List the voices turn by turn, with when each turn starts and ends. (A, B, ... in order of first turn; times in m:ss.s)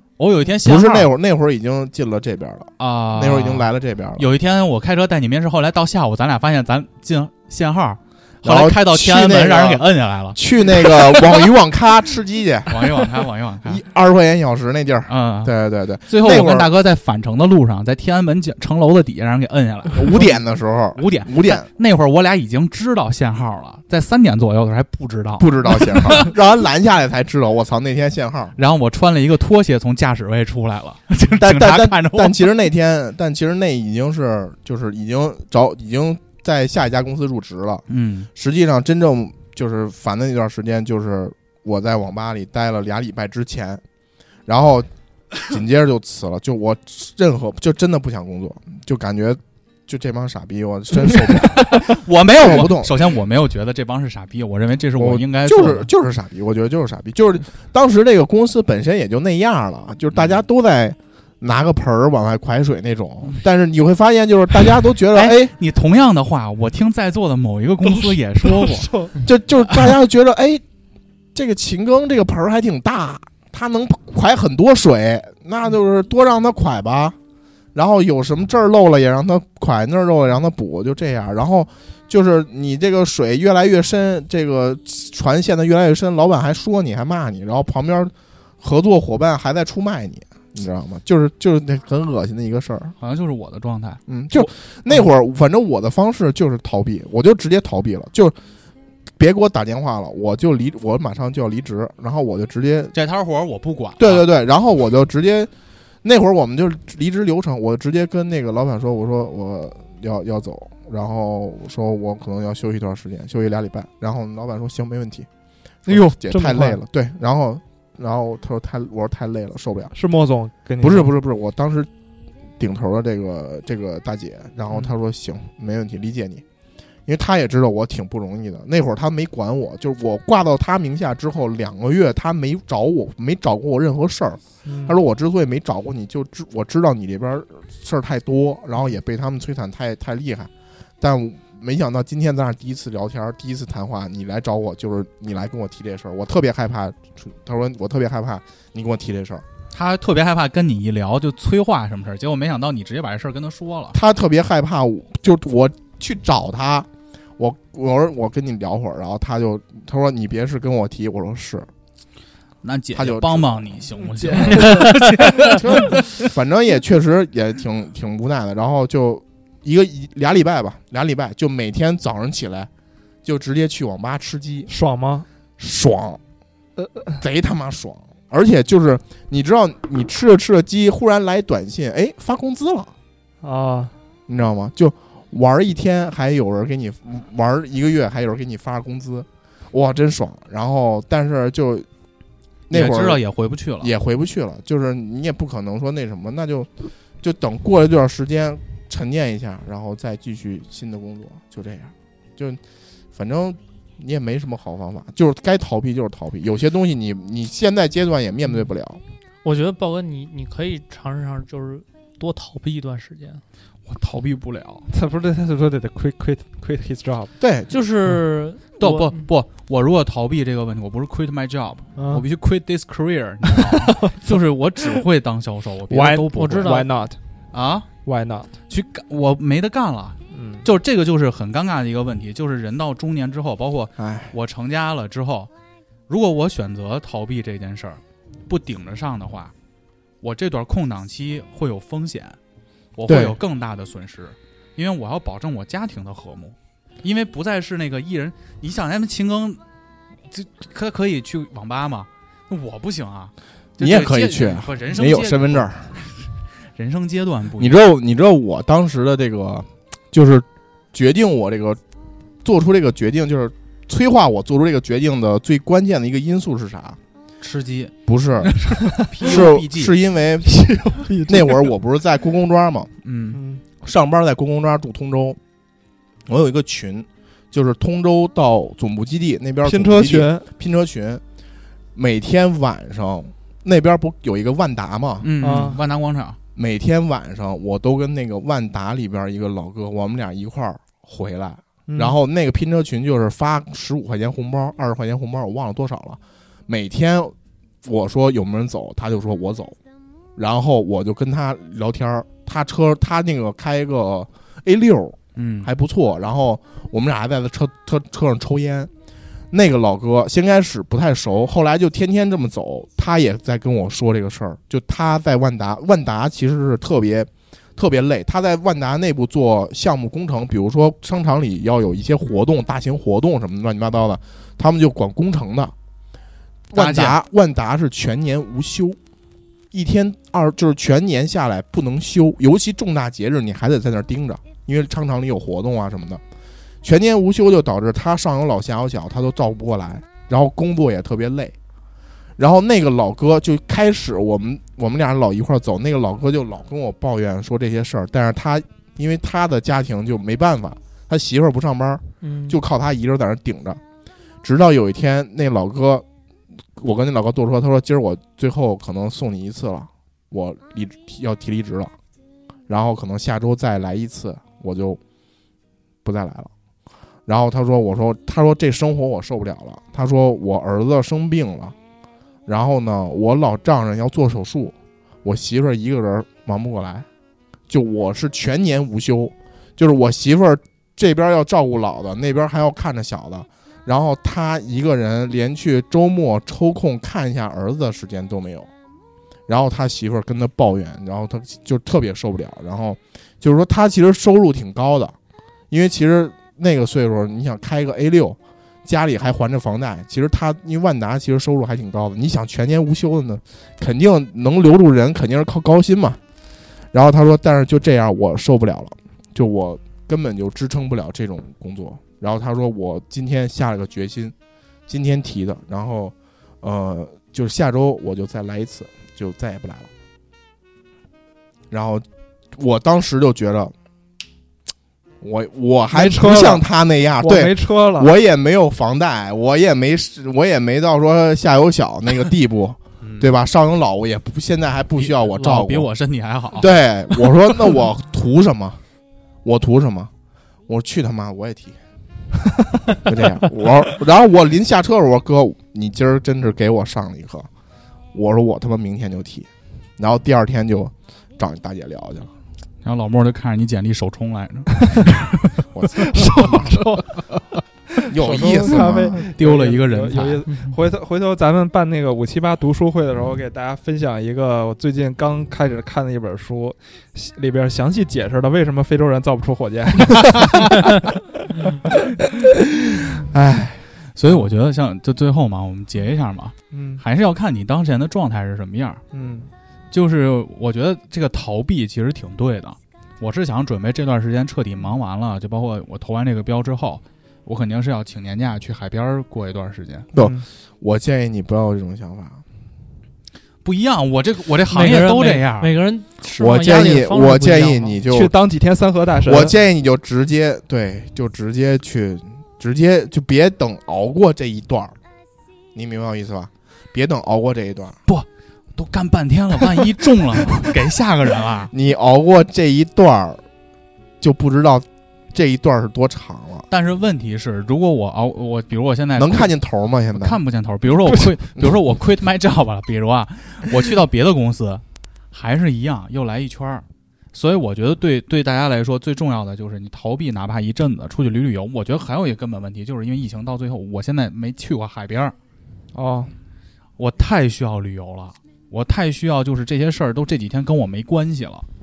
0:00.2-0:01.1 A
0:00.6-0:04.3 B
0:02.8-0:11.4 A
0:08.4-0:13.0 B
0:12.7-0:13.8 A
0:13.6-0:16.7 B
0:15.1-0:15.5 A
0:16.0-0:20.4 A
0:19.9-0:21.7 B
0:20.9-0:26.3 A
0:25.4-0:28.5 B
0:28.6-0:32.5 A
0:31.3-0:43.8 B
0:37.9-0:38.3 A
0:44.4-0:44.9 B
0:45.4-0:53.0 B
0:51.4-0:55.9 A
0:55.0-1:05.5 B
1:05.1-1:09.1 A
1:08.5-1:09.2 C
1:09.2-1:10.6 B
1:11.3-1:17.2 B
1:17.7-1:32.9 B
1:33.0-1:34.0 A
1:34.1-1:38.4 B
1:39.2-1:42.9 B
1:42.9-1:44.3 A
1:44.0-1:45.5 B
1:46.0-1:55.3 B
1:55.8-1:56.8 C
1:55.8-1:59.9 B
1:59.9-2:01.1 C
2:00.8-2:01.9 B
2:02.6-2:06.4 B
2:07.0-2:29.4 B
2:14.6-2:15.0 C
2:29.7-2:34.0 A
2:33.9-2:41.7 B
2:42.6-2:46.2 A
2:42.9-2:44.8 B
2:44.4-2:44.7 C
2:45.4-2:52.7 B
2:53.2-2:54.7 B
2:54.7-2:55.2 C
2:55.6-2:56.2 B
2:56.8-2:57.2 C
2:57.2-3:02.9 B
3:03.4-3:03.9 C
3:04.3-3:11.9 B
3:12.7-3:13.2 B
3:12.7-3:13.9 A
3:13.8-3:22.6 B
3:23.1-3:29.0 B
3:29.4-3:33.4 D
3:33.8-3:34.8 A
3:34.9-3:37.3 C
3:37.4-3:37.7 B
3:37.7-3:39.2 D
3:38.8-3:46.7 A
3:42.0-3:42.2 C
3:43.5-3:44.3 C
3:45.9-3:47.2 C
3:46.3-3:46.9 D
3:47.5-3:47.9 A
3:48.0-3:48.5 C
3:48.7-3:55.5 A
3:50.3-3:50.6 C
3:54.0-3:54.3 B
3:56.1-3:59.5 A
4:00.2-4:02.4 A
4:03.0-4:09.6 A
4:03.1-4:03.4 B
4:10.3-4:17.8 A
4:13.8-4:15.9 B
4:17.6-4:21.8 B
4:22.4-4:27.0 B
4:27.4-4:30.0 A
4:28.1-4:28.5 B
4:29.2-4:30.6 B
4:30.4-4:31.6 C
4:31.3-4:32.9 B
4:33.0-4:33.4 A
4:33.3-4:33.6 C
4:33.8-4:35.4 B
4:36.3-4:41.2 B
4:39.6-4:40.4 C
4:41.9-4:45.3 B
4:45.2-4:46.4 A
4:45.4-4:45.8 C
4:46.6-4:59.8 B
4:51.9-4:52.2 C
5:00.4-5:08.9 B
5:05.4-5:05.7 A
5:09.5-5:25.7 B
5:26.7-5:29.0 B
5:26.7-5:27.2 A
5:29.7-5:36.2 B
5:36.8-5:41.5 B
5:42.4-5:53.8 B
5:52.2-5:52.6 D
5:54.4-5:56.0 B
5:56.8-6:01.9 B
6:02.7-6:05.0 B
6:06.0-6:06.5 B
6:07.2-6:11.8 B
6:12.4-6:17.1 B
6:17.7-6:28.7 B
6:29.5-6:35.2 B
6:35.7-6:46.2 B
6:46.9-6:54.3 B
6:54.9-6:59.9 B
7:01.7-7:03.7 B
7:05.2-7:15.9 B
7:05.9-7:06.6 C
7:07.2-7:08.1 C
7:13.0-7:13.3 A
7:15.0-7:16.8 A
7:16.6-7:18.8 B
7:19.4-7:20.1 B
7:20.7-7:21.8 B
7:23.0-7:27.5 B
7:28.1-7:32.3 B
7:32.8-7:37.4 A
7:36.0-7:37.0 C
7:38.0-7:52.5 C
7:38.1-7:39.2 B
7:38.3-7:40.4 A
7:40.5-7:40.8 D
7:50.3-7:50.7 A
7:53.1-7:54.5 C
7:54.1-7:59.0 A
7:56.7-7:57.0 C
7:59.1-7:59.5 C
7:59.9-8:10.1 A
8:10.1-8:10.4 C
8:10.1-8:12.4 B
8:13.6-8:15.7 A
8:14.7-8:18.0 D
8:16.4-8:18.3 B
8:18.1-8:19.5 C
8:19.2-8:25.0 B
8:25.7-8:28.0 B
8:28.1-8:31.7 A
8:31.7-8:33.4 B
8:34.2-8:36.7 B
8:36.7-8:39.5 A
8:39.2-8:40.4 B
8:40.1-8:55.3 A
8:55.9-8:56.3 C
8:57.0-9:01.6 A